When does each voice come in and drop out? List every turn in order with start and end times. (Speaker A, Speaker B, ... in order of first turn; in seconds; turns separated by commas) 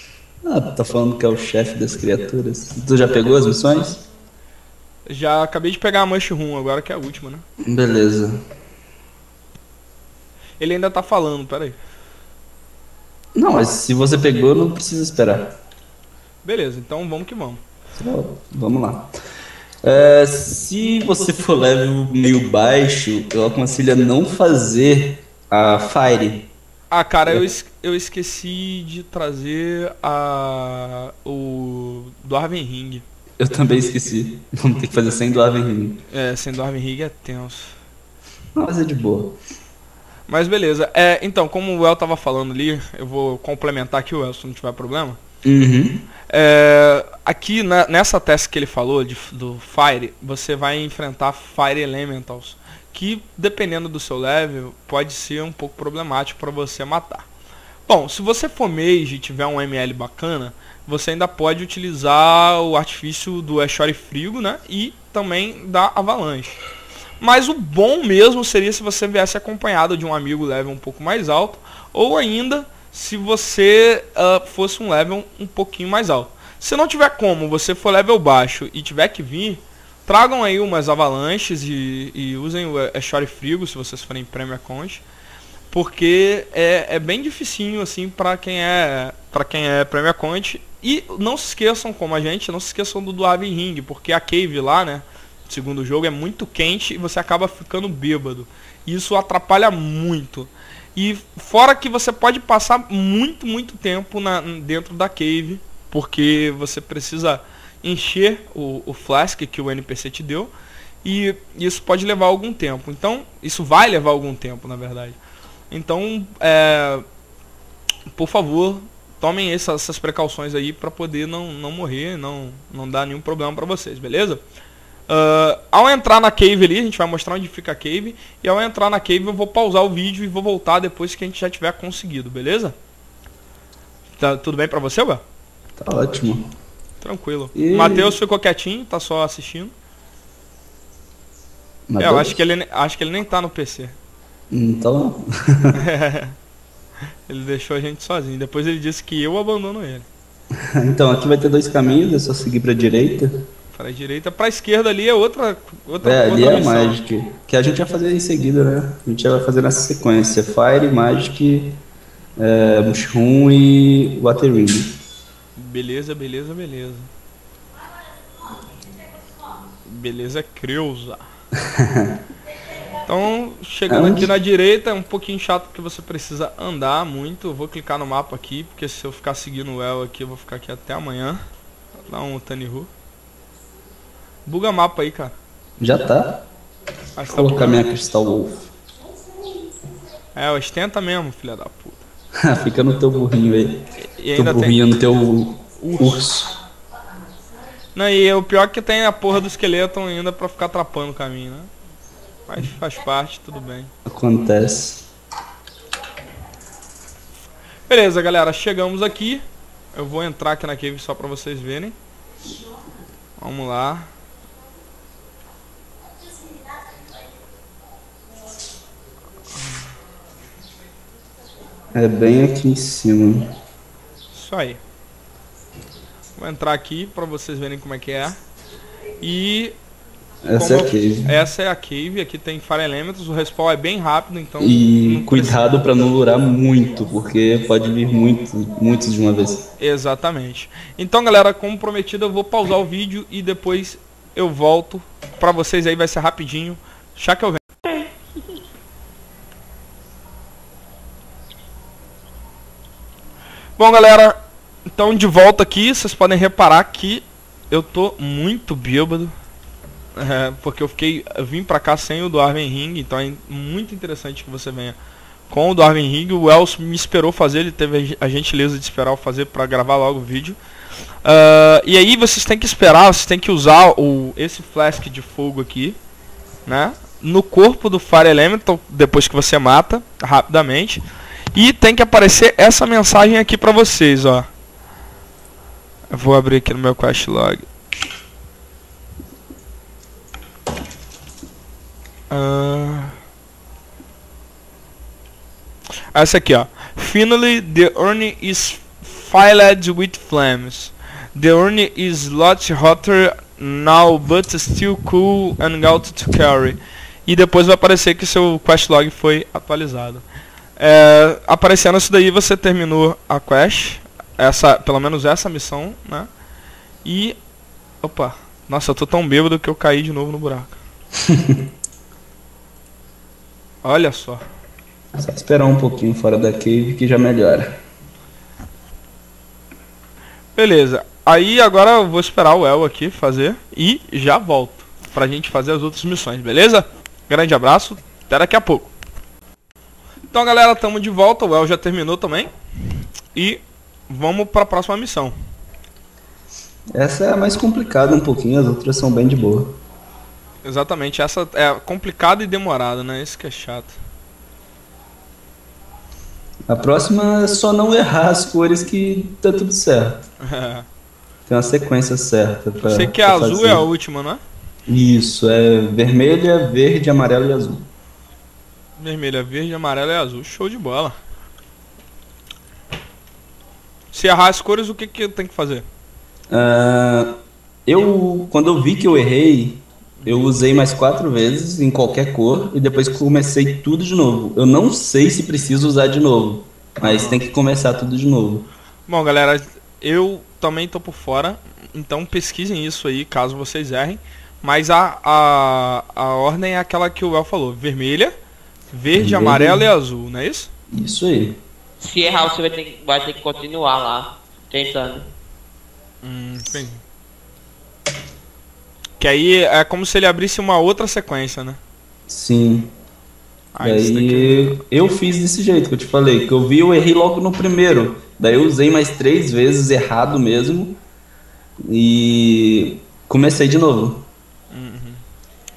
Speaker A: 0.4-4.0, Speaker B: 5.1-7.4, Speaker A: 7.6-8.4, Speaker B: 10.6-11.8, Speaker A: 13.3-15.6, Speaker B: 16.4-17.6, Speaker A: 17.9-19.1, Speaker A: 19.8-26.5, Speaker B: 26.9-33.0, Speaker A: 33.4-36.0, Speaker B: 36.1-37.7, Speaker A: 38.5-39.4, Speaker B: 40.3-45.2, Speaker A: 45.4-46.0, Speaker B: 46.3-57.3, Speaker B: 57.9-66.6, Speaker B: 67.2-85.0, Speaker B: 85.7-110.5, Speaker B: 111.0-115.2, Speaker B: 115.7-117.0, Speaker B: 118.1-124.4, Speaker B: 125.1-132.7, Speaker B: 134.2-135.2, Speaker A: 135.8-136.5, Speaker B: 137.0-139.7, Speaker A: 137.5-138.2, Speaker A: 141.9-142.4, Speaker B: 142.0-143.9, Speaker A: 144.5-145.8, Speaker B: 145.7-146.3, Speaker B: 147.3-150.1, Speaker A: 150.5-153.4, Speaker B: 153.7-157.0, Speaker A: 156.0-161.8, Speaker A: 162.4-165.0, Speaker B: 165.6-167.1, Speaker B: 169.8-171.2, Speaker A: 171.6-172.2, Speaker B: 173.1-181.4, Speaker A: 173.9-174.3, Speaker B: 182.1-182.9, Speaker B: 184.4-185.3, Speaker A: 185.8-186.4, Speaker B: 187.2-187.8, Speaker A: 187.3-188.7, Speaker B: 190.3-192.1, Speaker A: 192.4-196.6, Speaker B: 194.0-194.8, Speaker B: 195.8-196.2, Speaker B: 197.9-201.7, Speaker B: 202.5-203.9, Speaker A: 204.0-205.0, Speaker B: 207.9-209.4, Speaker B: 209.9-211.9, Speaker B: 213.4-214.1, Speaker A: 221.9-223.5, Speaker B: 224.3-224.8, Speaker B: 226.4-228.4, Speaker B: 229.2-229.7, Speaker A: 230.4-231.3, Speaker B: 230.5-235.6, Speaker A: 234.6-239.7, Speaker B: 239.8-247.8, Speaker B: 253.8-254.4, Speaker B: 254.9-259.3, Speaker B: 260.1-264.9, Speaker B: 265.5-270.6, Speaker B: 271.2-276.0, Speaker B: 276.6-281.0, Speaker B: 281.5-284.5, Speaker B: 286.1-287.6, Speaker B: 292.3-293.1, Speaker B: 296.1-310.2, Speaker B: 310.8-316.3, Speaker B: 317.0-317.4, Speaker B: 318.0-320.8, Speaker A: 321.2-321.6, Speaker B: 323.8-324.4, Speaker A: 325.1-327.8, Speaker B: 330.6-338.9, Speaker B: 340.3-342.5, Speaker B: 343.3-345.3, Speaker A: 346.9-349.8, Speaker B: 350.6-354.0, Speaker A: 356.7-360.2, Speaker B: 360.4-360.9, Speaker A: 361.5-363.9, Speaker B: 362.8-364.4, Speaker A: 364.9-367.9, Speaker B: 369.0-371.1, Speaker B: 374.1-375.8, Speaker A: 376.5-388.7, Speaker B: 387.0-387.4, Speaker B: 389.1-398.3, Speaker B: 398.9-400.7, Speaker A: 399.1-399.9, Speaker A: 400.9-401.6, Speaker C: 402.0-405.3, Speaker B: 406.2-407.0, Speaker B: 409.2-411.8, Speaker A: 412.3-412.9, Speaker B: 413.7-414.8, Speaker A: 413.8-421.0, Speaker A: 421.8-424.3, Speaker B: 424.7-425.2